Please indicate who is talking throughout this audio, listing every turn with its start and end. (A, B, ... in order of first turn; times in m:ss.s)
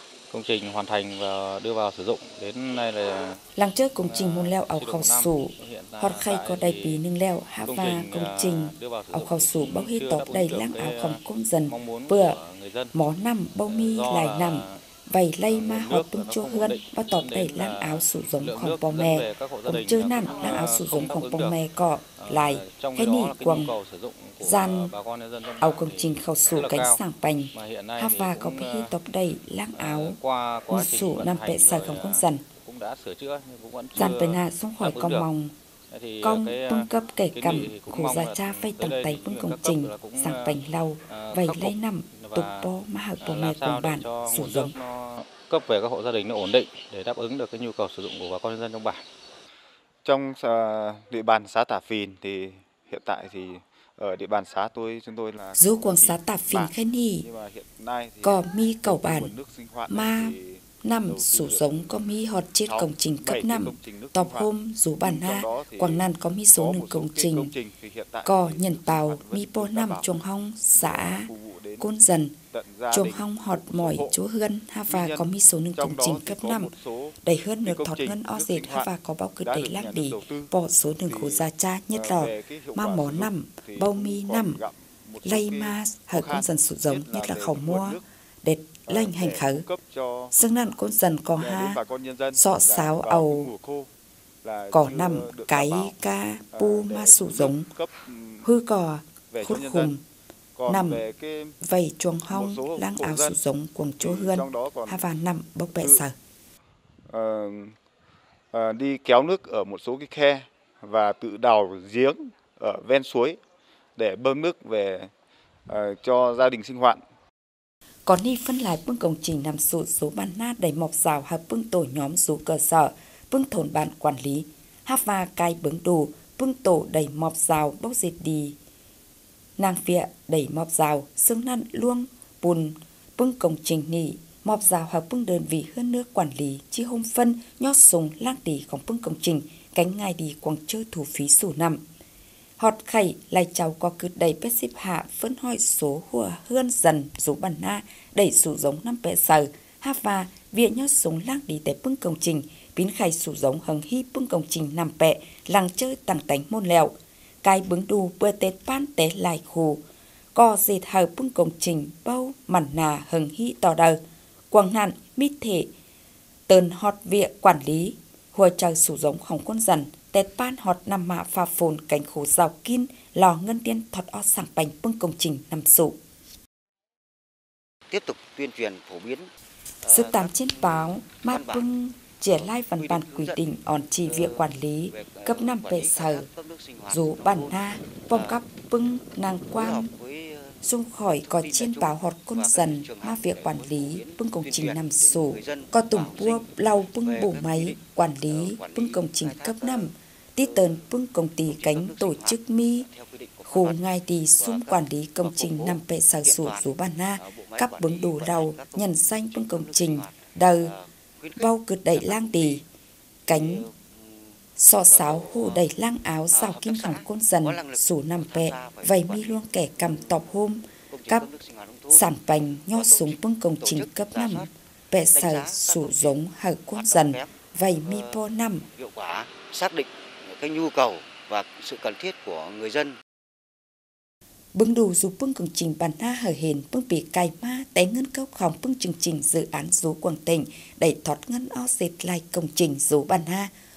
0:00.3-0:03.4 A
0:03.5-0:12.4 B
0:04.0-0:07.0 A
0:07.6-0:12.9 A
0:12.9-0:23.7 B
0:13.6-0:14.8 A
0:15.5-0:21.6 A
0:22.2-0:27.0 A
0:24.4-0:24.9 B
0:25.6-0:30.2 B
0:27.5-0:28.9 A
0:29.7-0:35.3 A
0:30.7-0:32.4 B
0:33.9-0:35.5 B
0:35.9-0:42.7 A
0:36.2-0:44.7 B
0:43.2-0:49.0 A
0:50.0-1:02.0 C
0:55.6-0:57.3 B
0:58.2-0:59.3 B
0:59.9-1:07.5 B
1:02.7-1:04.5 C
1:05.0-1:10.2 C
1:08.2-1:12.4 B
1:10.7-1:11.9 C
1:12.5-1:14.2 C
1:12.9-1:24.6 B
1:14.9-1:20.5 C
1:21.0-1:28.0 C
1:25.2-1:29.6 B
1:28.9-1:30.4 C
1:30.3-1:31.8 B
1:31.4-1:33.9 C
1:32.3-1:33.5 B
1:34.4-1:36.0 C
1:34.7-1:37.7 B
1:36.5-1:38.5 C
1:38.4-1:40.0 B
1:39.3-1:39.9 C
1:40.6-1:41.6 C
1:40.6-1:41.0 B
1:41.6-1:46.1 B
1:42.3-1:43.4 C
1:44.0-1:45.1 C
1:45.7-1:46.0 C
1:47.1-1:47.7 C
1:48.5-1:53.4 C
1:54.0-1:55.1 C
1:55.7-1:57.0 C
1:58.0-2:08.6 B
2:09.6-2:21.8 B
2:22.6-2:39.8 B
2:40.3-2:44.0 B
2:44.5-2:45.7 B
2:46.5-2:56.0 B
2:57.9-2:59.3 D
2:59.8-3:01.6 D
2:59.8-3:06.2 B
3:02.6-3:03.4 D
3:04.0-3:07.6 D
3:06.9-3:09.9 B
3:08.1-3:08.4 D
3:09.5-3:10.6 D
3:10.6-3:22.9 B
3:11.2-3:16.5 D
3:17.0-3:19.9 D
3:20.4-3:20.8 D
3:21.4-3:23.8 D
3:23.5-3:30.7 B
3:24.4-3:32.6 D
3:31.4-3:32.6 B
3:33.3-3:33.6 B
3:33.3-3:34.3 D
3:34.6-3:41.3 B
3:34.9-3:35.6 D
3:36.3-3:40.2 D
3:40.9-3:42.0 D
3:41.9-3:48.6 B
3:42.7-3:44.5 D
3:45.1-3:46.2 D
3:46.7-3:47.3 D
3:47.8-3:53.0 D
3:54.5-4:03.5 B